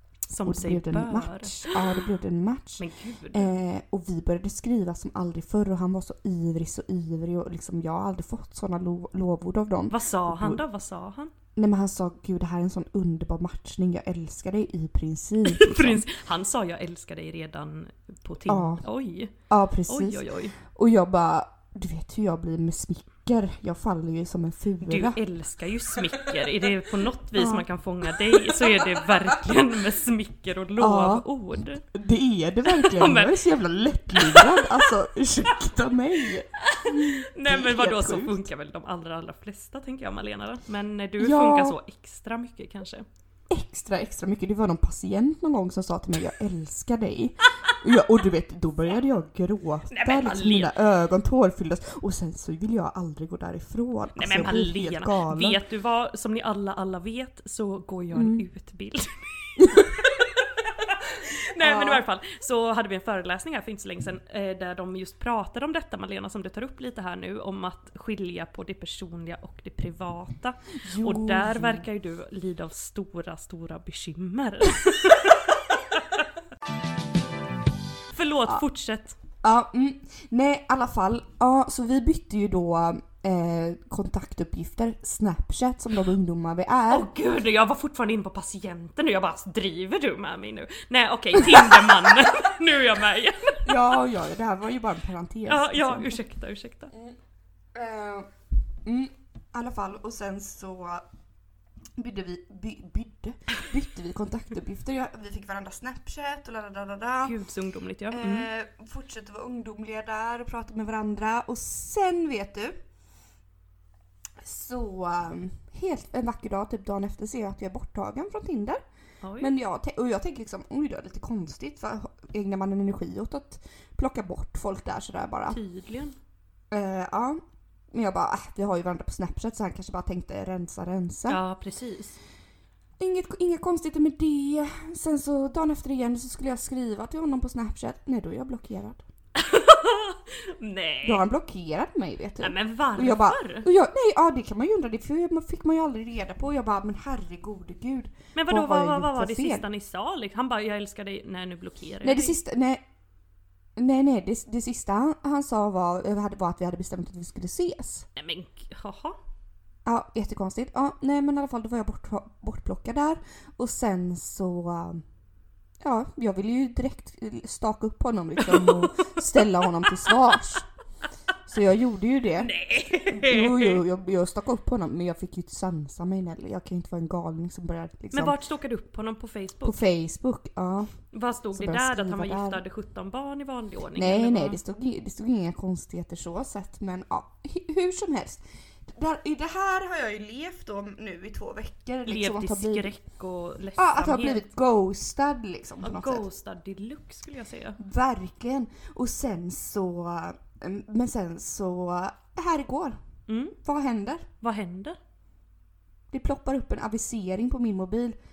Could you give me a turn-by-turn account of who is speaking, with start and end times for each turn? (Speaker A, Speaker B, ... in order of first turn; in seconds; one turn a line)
Speaker A: 0.3-1.8
Speaker B: 0.4-10.6
Speaker A: 2.8-3.5
Speaker A: 9.9-11.3
Speaker B: 11.6-16.1
Speaker A: 15.4-19.3
Speaker B: 18.5-18.8
Speaker B: 19.5-25.2
Speaker A: 19.9-20.6
Speaker A: 24.8-31.8
Speaker B: 27.4-29.4
Speaker B: 30.8-31.2
Speaker B: 31.9-38.5
Speaker A: 32.6-33.4
Speaker A: 34.1-34.9
Speaker A: 36.6-43.1
Speaker B: 41.2-41.8
Speaker B: 43.5-55.6
Speaker A: 49.9-50.8
Speaker A: 54.2-60.3
Speaker B: 58.1-58.4
Speaker A: 61.1-76.2
Speaker B: 61.6-62.0
Speaker B: 70.8-71.8
Speaker A: 78.1-79.2
Speaker B: 79.4-87.1
Speaker A: 86.9-93.9
Speaker B: 91.5-91.8
Speaker B: 93.7-96.2
Speaker A: 95.5-96.9
Speaker B: 97.8-98.3
Speaker B: 98.8-101.0
Speaker B: 102.0-107.3
Speaker A: 107.2-108.5
Speaker B: 108.1-112.8
Speaker B: 114.4-118.8
Speaker A: 119.2-119.5
Speaker B: 119.4-125.6
Speaker A: 125.5-126.2
Speaker B: 126.7-127.4
Speaker B: 127.9-131.4
Speaker A: 131.3-132.2
Speaker B: 133.0-139.0
Speaker A: 139.3-141.2
Speaker B: 141.0-149.7
Speaker A: 142.4-143.7
Speaker A: 148.3-152.4
Speaker B: 152.0-152.8
Speaker B: 153.8-158.1
Speaker A: 158.2-159.2
Speaker B: 159.9-165.0
Speaker B: 165.8-170.7
Speaker A: 168.4-169.1
Speaker B: 171.5-172.5
Speaker A: 172.4-173.8
Speaker B: 173.1-178.4
Speaker A: 178.1-179.8
Speaker B: 179.7-181.0
Speaker A: 181.1-184.6
Speaker B: 181.5-182.6
Speaker B: 183.9-192.9
Speaker A: 192.1-194.4
Speaker B: 193.8-196.2
Speaker A: 195.8-197.8
Speaker B: 197.8-203.0
Speaker A: 203.3-203.6
Speaker B: 203.6-204.3
Speaker A: 204.4-205.0
Speaker B: 206.1-208.2